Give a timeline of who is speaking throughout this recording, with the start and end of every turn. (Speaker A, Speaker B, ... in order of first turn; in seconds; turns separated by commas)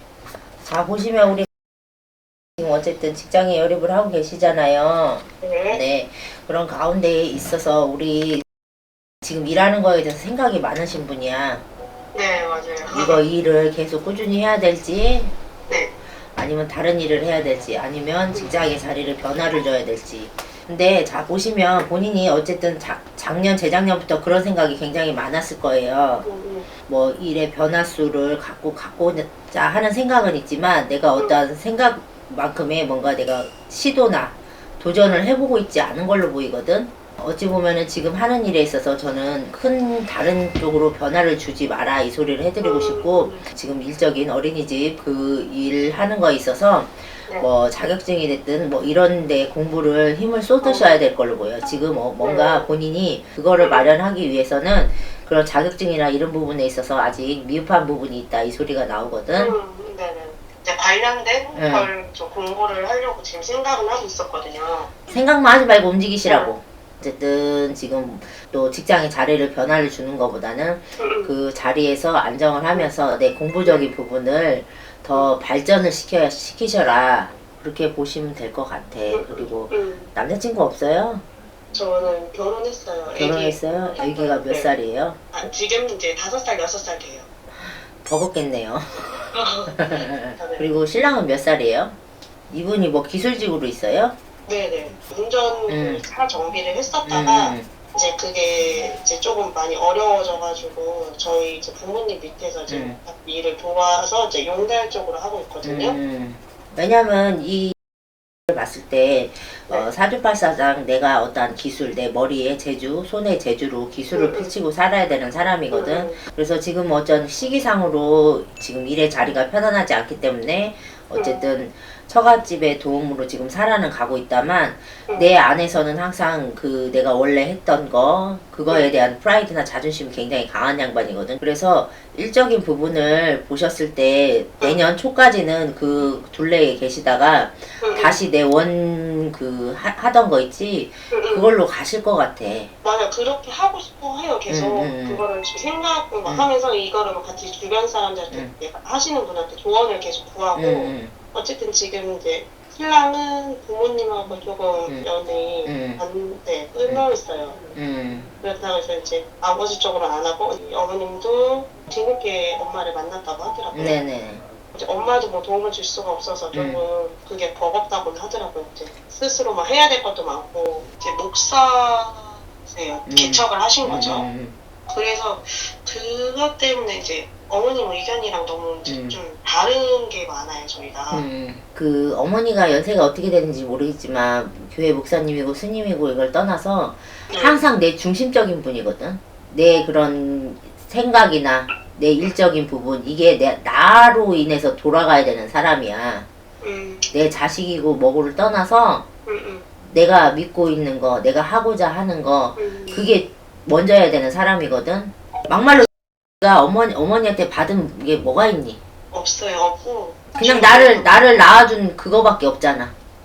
Speaker A: 0.6-1.5, Speaker A: 2.6-8.4, Speaker B: 5.4-5.8, Speaker A: 9.2-11.6, Speaker B: 12.1-13.2, Speaker A: 12.9-15.3, Speaker A: 16.3-26.2, Speaker B: 18.3-18.6, Speaker B: 26.2-26.7, Speaker A: 26.9-59.5, Speaker B: 31.1-31.4, Speaker B: 42.6-43.5, Speaker B: 50.6-51.0, Speaker B: 52.2-52.7, Speaker B: 53.6-53.9, Speaker B: 59.3-65.2, Speaker A: 61.5-61.9, Speaker A: 65.1-81.2, Speaker B: 66.2-66.5, Speaker B: 71.0-71.3, Speaker B: 73.6-73.9, Speaker B: 79.1-80.1, Speaker B: 81.7-84.7, Speaker A: 83.1-85.2, Speaker B: 85.3-87.3, Speaker A: 87.6-89.1, Speaker B: 89.3-90.7, Speaker A: 89.7-92.0, Speaker A: 92.5-94.2, Speaker B: 94.5-106.0, Speaker A: 95.7-96.0, Speaker A: 97.0-97.7, Speaker A: 102.7-103.0, Speaker A: 105.6-107.8, Speaker A: 108.5-142.7, Speaker B: 114.1-114.5, Speaker B: 115.7-116.2, Speaker B: 121.1-121.4, Speaker B: 128.7-128.9, Speaker B: 137.8-138.2, Speaker B: 141.1-141.5, Speaker B: 142.8-157.6, Speaker A: 144.5-145.2, Speaker A: 150.5-151.1, Speaker A: 155.6-156.0, Speaker A: 157.7-158.3, Speaker B: 158.4-164.0, Speaker A: 163.7-164.4, Speaker B: 164.7-174.2, Speaker A: 166.5-166.8, Speaker A: 173.1-174.5, Speaker B: 174.9-181.2, Speaker A: 178.8-179.2, Speaker A: 181.1-196.2, Speaker B: 187.3-187.6, Speaker B: 196.6-197.2, Speaker A: 197.1-199.0, Speaker B: 199.3-199.7, Speaker A: 199.8-205.9, Speaker B: 202.6-203.2, Speaker A: 206.4-208.8, Speaker B: 209.1-211.6, Speaker A: 210.4-212.9